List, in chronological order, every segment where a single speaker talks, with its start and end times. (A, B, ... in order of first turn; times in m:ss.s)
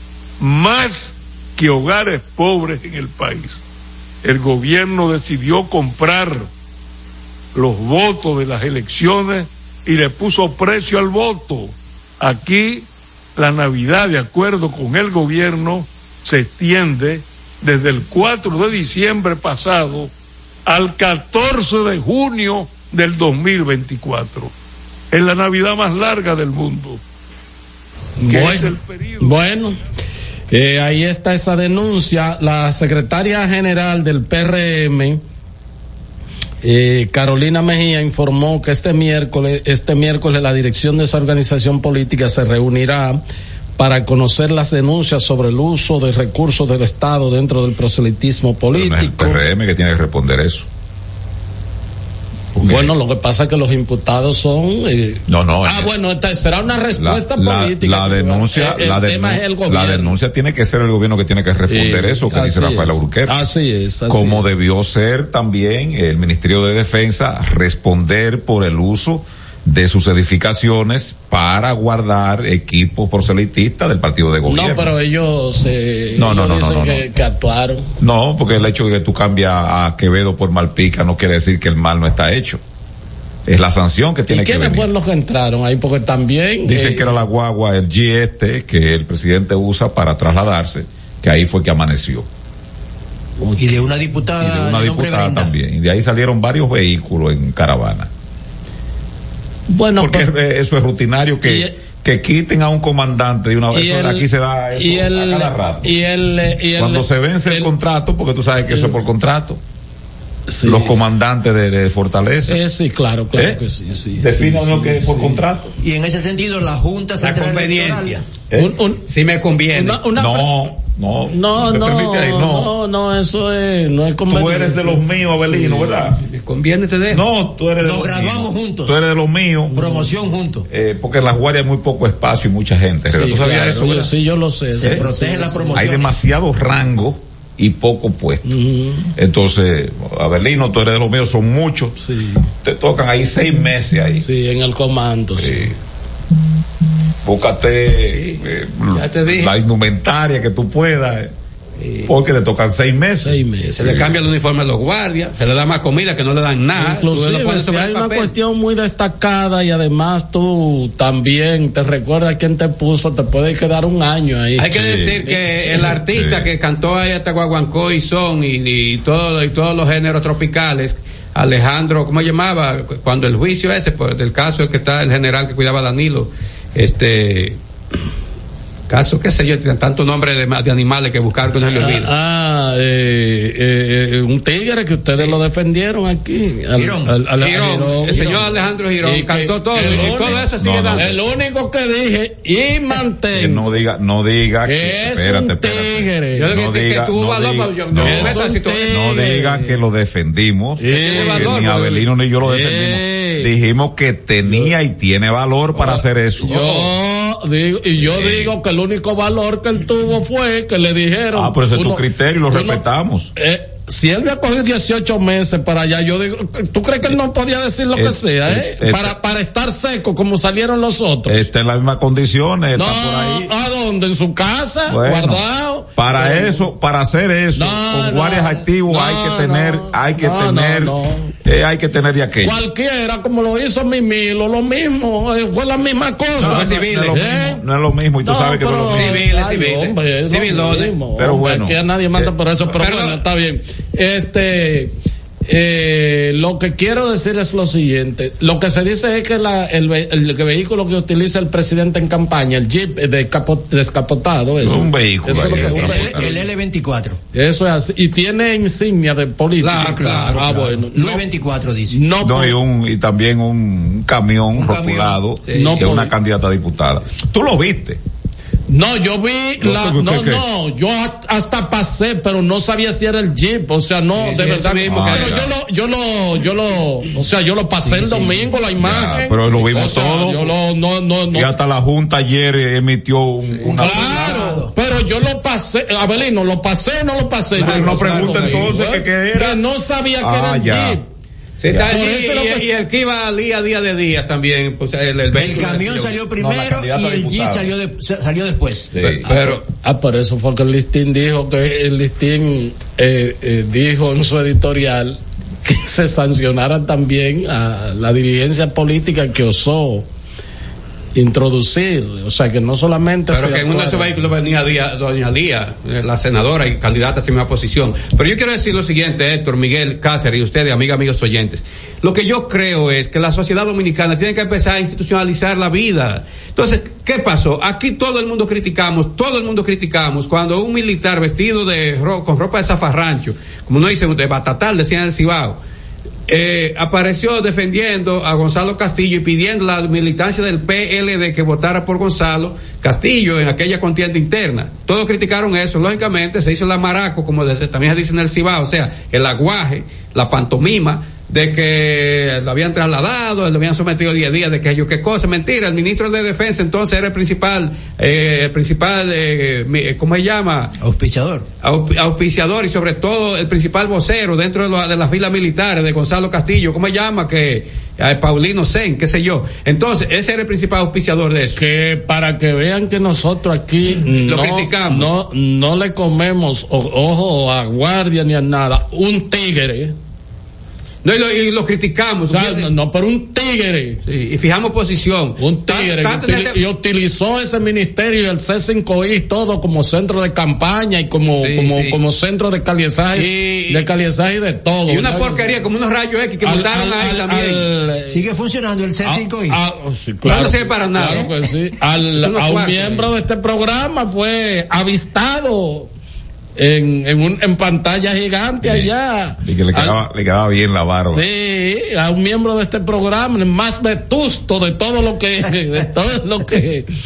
0:00.4-0:03.6 A
0:04.2-0:06.5 A
0:07.6-0:12.9 A
0:13.4-0:20.1 A
0:20.7-0:24.5 A
0:25.1-0:27.0 A
0:28.2-0:29.8 B
0:28.3-0:29.5 A
0:30.5-0:35.2 B
0:36.6-0:43.2 B
0:43.8-0:49.4 B
0:48.7-0:50.7 C
0:52.6-0:52.9 C
0:52.6-1:00.2 B
0:55.3-0:55.9 C
0:57.0-1:03.5 C
1:01.7-1:04.6 B
1:04.1-1:14.9 C
1:14.4-1:17.9 B
1:16.2-1:17.1 C
1:18.0-1:22.6 C
1:23.5-1:24.9 C
1:24.3-1:27.2 B
1:26.6-1:32.3 C
1:33.4-1:33.8 B
1:33.6-1:35.6 D
1:34.4-1:38.1 C
1:39.7-1:40.3 B
1:40.0-1:46.0 C
1:41.4-1:41.7 B
1:43.7-1:47.7 B
1:46.7-1:49.6 C
1:48.7-1:49.0 B
1:50.5-1:51.0 B
1:50.6-1:52.6 C
1:52.5-1:55.4 B
1:53.3-1:53.6 C
1:54.2-1:55.7 C
1:55.8-1:58.3 D
1:57.2-1:58.2 E
1:58.6-1:59.0 B
1:59.1-2:00.1 E
1:59.7-2:00.5 B
2:00.1-2:02.7 C
2:01.3-2:06.0 B
2:04.3-2:06.2 C
2:06.2-2:07.2 E
2:07.1-2:09.8 C
2:07.8-2:09.0 D
2:09.7-2:10.7 D
2:10.7-2:14.1 C
2:13.1-2:15.9 B
2:14.7-2:16.2 D
2:15.8-2:18.5 C
2:18.5-2:19.1 B
2:19.2-2:22.0 C
2:22.0-2:22.5 B
2:22.6-2:24.3 C
2:24.2-2:25.7 B
2:25.4-2:25.7 C
2:27.2-2:31.3 C
2:28.1-2:28.4 E
2:29.0-2:29.5 E
2:31.8-2:32.1 E
2:32.0-2:34.2 C
2:33.2-2:34.1 B
2:33.8-2:38.4 E
2:36.7-2:46.0 B
2:44.6-2:57.6 E
2:44.7-2:46.5 C
2:58.9-3:02.1 E
3:01.7-3:13.8 B
3:06.7-3:07.2 D
3:07.4-3:11.1 E
3:09.7-3:11.2 C
3:13.3-3:26.9 C
3:14.6-3:16.5 B
3:16.4-3:19.0 E
3:18.0-3:19.8 B
3:20.8-3:21.7 B
3:20.9-3:22.0 E
3:22.4-3:23.5 B
3:25.8-3:32.8 B
3:28.0-3:28.6 C
3:31.3-3:33.3 C
3:33.4-3:41.5 B
3:37.9-3:39.2 C
3:41.3-3:43.5 C
3:42.7-3:46.7 B
3:44.9-3:52.6 C
3:47.6-3:51.4 B
3:52.4-3:57.6 B
3:56.4-3:57.2 E
3:56.4-3:59.3 C
3:58.2-4:05.0 B
3:58.9-4:01.0 E
4:01.2-4:02.3 C
4:02.7-4:03.2 E
4:05.5-4:16.2 B
4:14.6-4:16.5 C
4:15.4-4:17.2 D
4:17.3-4:21.2 B
4:19.6-4:20.4 E
4:19.7-4:22.1 D
4:21.9-4:22.6 B
4:22.2-4:28.0 C
4:24.6-4:25.1 D
4:25.4-4:25.8 E
4:25.5-4:26.1 B
4:28.7-4:41.5 B
4:29.6-4:30.4 C
4:34.2-4:35.4 E
4:34.8-4:35.5 C
4:37.8-4:38.5 D
4:38.8-4:40.5 C
4:41.3-4:44.6 C
4:43.5-4:44.0 E
4:43.8-4:51.0 B
4:43.8-4:44.8 D
4:47.6-4:48.8 E
4:47.6-4:49.6 C
4:50.2-4:51.0 C
4:51.6-4:56.1 E
4:51.7-4:51.9 C
4:51.9-4:52.7 B
4:55.3-4:59.0 D
4:56.3-4:57.7 C
4:58.9-4:59.3 C
4:59.2-4:59.6 E
4:59.3-5:10.1 B
5:11.2-5:14.2 B
5:13.3-5:35.6 E
5:36.3-6:00.7 E
6:00.8-6:01.5 D
6:01.6-6:11.6 E
6:11.6-6:20.0 B
6:14.2-6:15.1 E
6:21.0-6:22.7 E
6:22.3-6:24.0 B
6:24.1-6:26.6 E
6:25.4-6:35.5 B
6:31.4-6:32.0 E
6:33.1-6:33.9 E
6:34.9-6:37.6 E
6:36.4-6:38.1 B
6:38.0-6:39.6 D
6:39.1-6:45.9 B
6:40.2-6:41.3 E
6:42.1-6:43.1 E
6:46.6-6:50.0 B
6:48.6-6:48.9 C
6:49.4-6:51.2 C
6:51.1-6:56.9 B